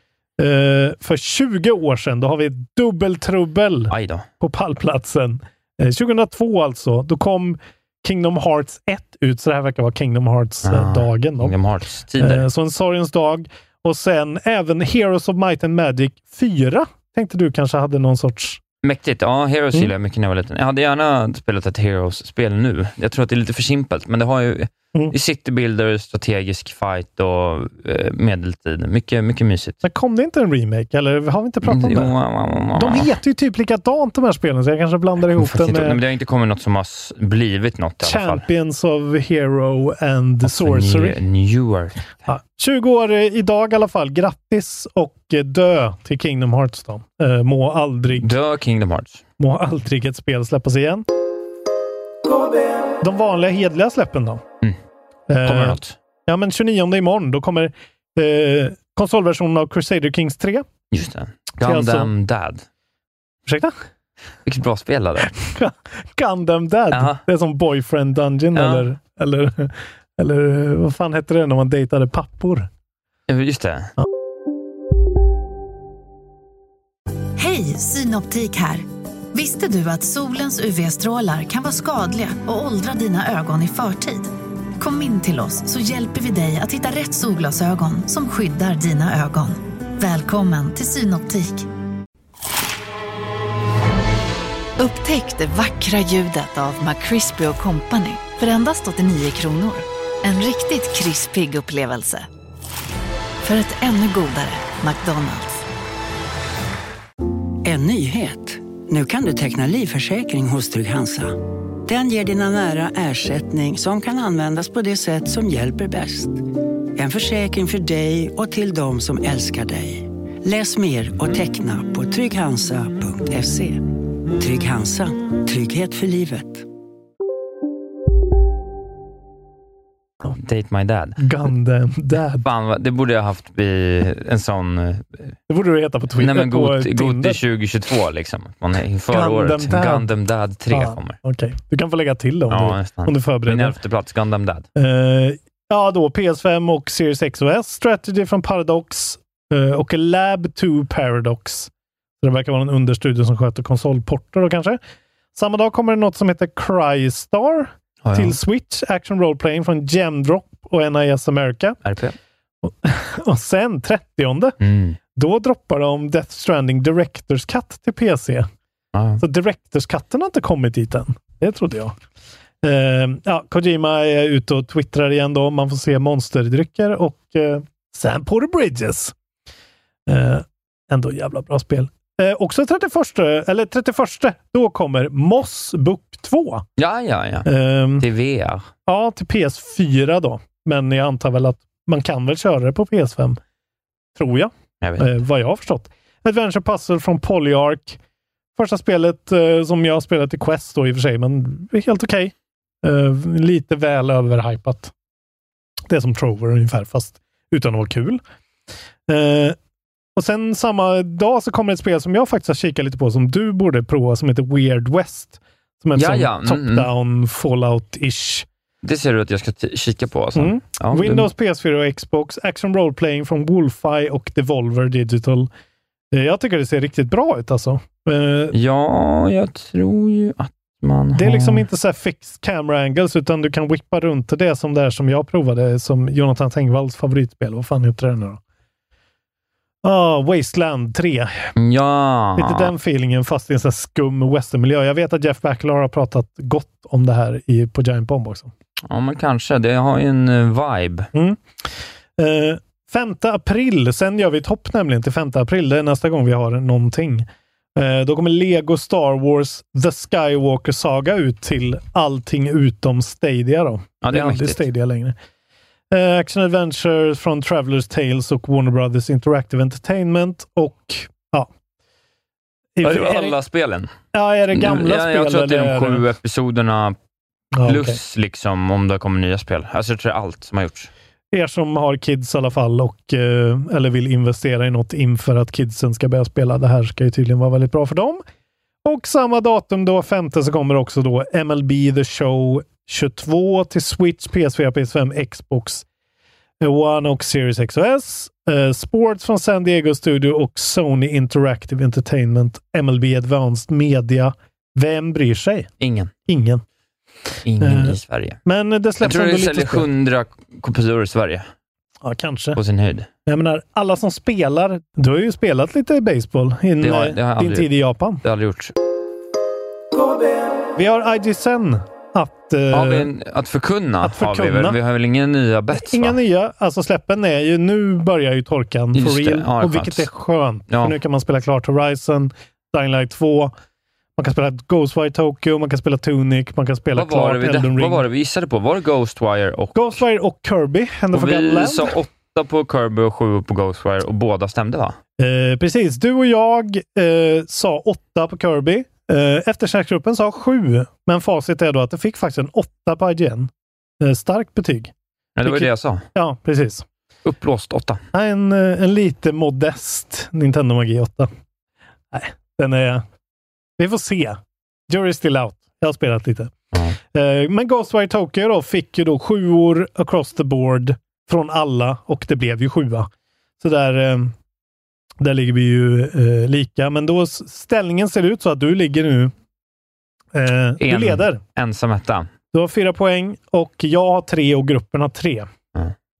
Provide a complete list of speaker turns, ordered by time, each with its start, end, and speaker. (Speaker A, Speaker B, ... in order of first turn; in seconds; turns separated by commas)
Speaker A: 0.4-11.5, Speaker B: 3.9-4.2, Speaker B: 10.6-12.4, Speaker A: 12.2-18.6, Speaker B: 18.8-29.8, Speaker A: 29.8-32.1, Speaker B: 31.6-33.1, Speaker A: 32.7-36.0, Speaker B: 35.3-38.4, Speaker A: 38.0-41.2, Speaker B: 40.4-42.1, Speaker A: 42.3-48.3, Speaker B: 48.1-49.2, Speaker A: 49.4-51.0, Speaker A: 53.0-54.4, Speaker A: 55.3-60.7, Speaker B: 55.4-55.9, Speaker B: 60.9-62.6, Speaker A: 61.6-62.1, Speaker A: 63.5-63.7, Speaker B: 64.5-65.4, Speaker A: 65.2-72.7, Speaker B: 66.9-67.2, Speaker B: 68.5-68.9, Speaker B: 73.3-73.9, Speaker C: 77.4-91.7, Speaker C: 94.8-102.3, Speaker C: 103.4-105.6, Speaker D: 107.6-116.4, Speaker D: 116.9-126.7, Speaker B: 130.4-131.2, Speaker A: 131.2-132.4, Speaker B: 132.4-135.3, Speaker A: 135.5-137.4, Speaker B: 136.2-141.2, Speaker A: 139.1-140.1, Speaker A: 140.7-143.8, Speaker B: 142.5-144.6, Speaker A: 144.8-151.7, Speaker A: 152.2-154.8, Speaker A: 155.3-161.8, Speaker B: 158.0-158.3, Speaker B: 161.8-162.2, Speaker A: 162.6-164.6, Speaker B: 164.6-165.0, Speaker A: 165.1-168.5, Speaker B: 168.9-169.2, Speaker A: 169.2-171.9, Speaker A: 172.6-179.1, Speaker A: 180.1-186.6, Speaker B: 186.8-188.7, Speaker A: 187.4-188.1, Speaker A: 188.8-193.4, Speaker A: 194.2-198.0, Speaker B: 194.8-195.1, Speaker A: 198.6-204.9, Speaker A: 205.9-208.2, Speaker A: 209.1-209.6, Speaker A: 210.2-218.5, Speaker B: 215.9-216.9, Speaker B: 218.8-221.3, Speaker A: 220.3-225.5, Speaker A: 226.1-228.5, Speaker B: 228.5-231.6, Speaker A: 231.1-238.4, Speaker A: 239.8-241.5, Speaker B: 241.6-242.7, Speaker A: 242.4-248.5, Speaker B: 248.9-251.1, Speaker A: 251.1-251.4, Speaker A: 252.2-265.1, Speaker B: 264.0-264.6, Speaker A: 265.9-271.5, Speaker A: 272.8-273.3, Speaker B: 272.8-273.9, Speaker A: 274.1-276.0, Speaker B: 274.5-276.9, Speaker A: 277.5-278.0, Speaker B: 277.6-280.9, Speaker A: 281.3-288.2, Speaker A: 288.8-295.8, Speaker A: 296.6-305.7, Speaker B: 305.8-306.1, Speaker A: 306.3-306.6, Speaker B: 307.4-308.4, Speaker A: 307.6-309.9, Speaker B: 309.0-311.5, Speaker A: 312.0-312.6, Speaker B: 312.5-313.1, Speaker A: 313.2-318.2, Speaker B: 316.8-317.7, Speaker B: 318.2-318.7, Speaker A: 320.7-323.1, Speaker B: 322.7-326.2, Speaker A: 324.0-324.8, Speaker A: 325.7-333.5, Speaker B: 328.9-330.1, Speaker B: 330.7-330.9, Speaker A: 334.2-338.0, Speaker B: 336.9-340.0, Speaker A: 339.7-341.9, Speaker B: 341.1-345.0, Speaker A: 345.2-354.9, Speaker B: 355.4-356.0, Speaker A: 355.4-356.8, Speaker B: 357.2-358.0, Speaker A: 358.1-361.3, Speaker A: 362.1-363.0, Speaker A: 363.8-366.5, Speaker A: 367.1-373.1, Speaker A: 373.6-374.3, Speaker A: 375.2-379.3, Speaker A: 380.3-381.4, Speaker B: 380.8-382.3, Speaker A: 382.5-385.5